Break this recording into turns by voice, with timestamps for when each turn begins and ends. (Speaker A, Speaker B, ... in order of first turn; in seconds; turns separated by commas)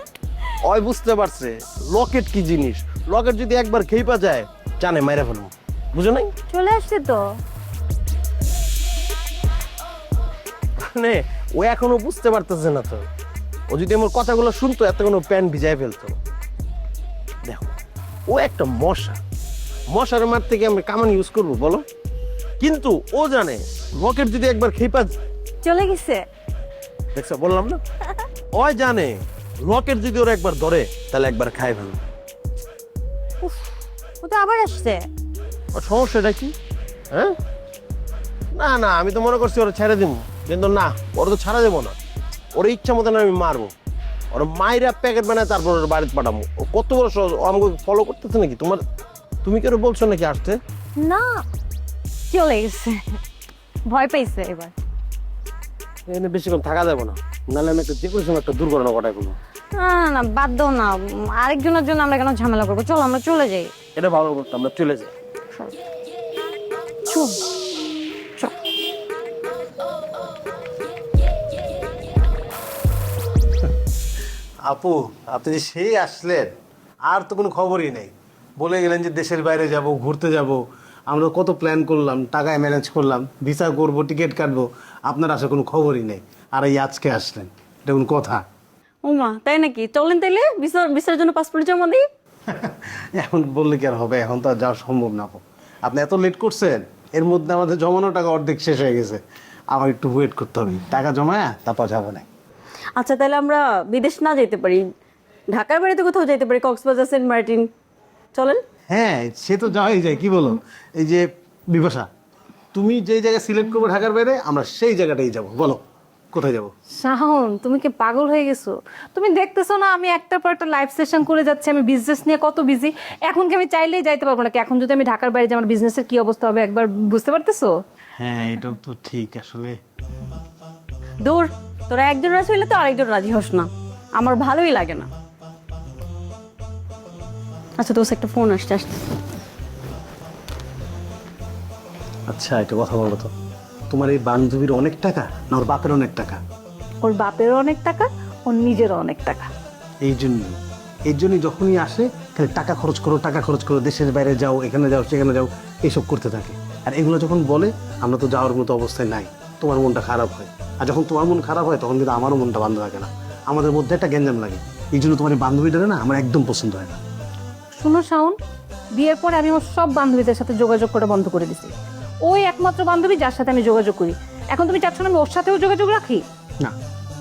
Speaker A: 0.7-6.3, Speaker A: 10.8-13.0, Speaker A: 13.7-16.1, Speaker A: 17.5-17.7, Speaker A: 18.3-19.2, Speaker A: 19.9-21.8, Speaker A: 22.6-25.1, Speaker B: 25.6-26.2, Speaker A: 27.1-27.8, Speaker A: 28.5-29.1, Speaker A: 29.6-32.0, Speaker B: 34.2-35.0, Speaker A: 35.7-36.5, Speaker A: 38.5-41.9, Speaker A: 42.5-43.7, Speaker A: 44.3-48.8, Speaker A: 49.4-50.5, Speaker B: 52.3-53.0, Speaker B: 53.9-54.7, Speaker A: 56.1-59.3, Speaker B: 59.7-63.7, Speaker A: 64.0-65.1, Speaker C: 74.7-76.5, Speaker C: 77.1-88.4, Speaker D: 89.0-92.0, Speaker C: 92.5-99.2, Speaker C: 99.7-102.2, Speaker D: 103.0-104.8, Speaker D: 105.5-107.7, Speaker D: 108.3-108.6, Speaker C: 108.9-112.1, Speaker C: 112.7-115.8, Speaker C: 116.3-116.7, Speaker E: 117.0-127.7, Speaker C: 128.2-129.7, Speaker D: 131.2-135.1, Speaker D: 137.8-139.0, Speaker C: 142.3-143.3, Speaker C: 143.9-146.4, Speaker E: 147.0-149.5, Speaker C: 150.0-167.0, Speaker E: 167.7-168.3, Speaker E: 168.9-171.7, Speaker E: 172.2-176.2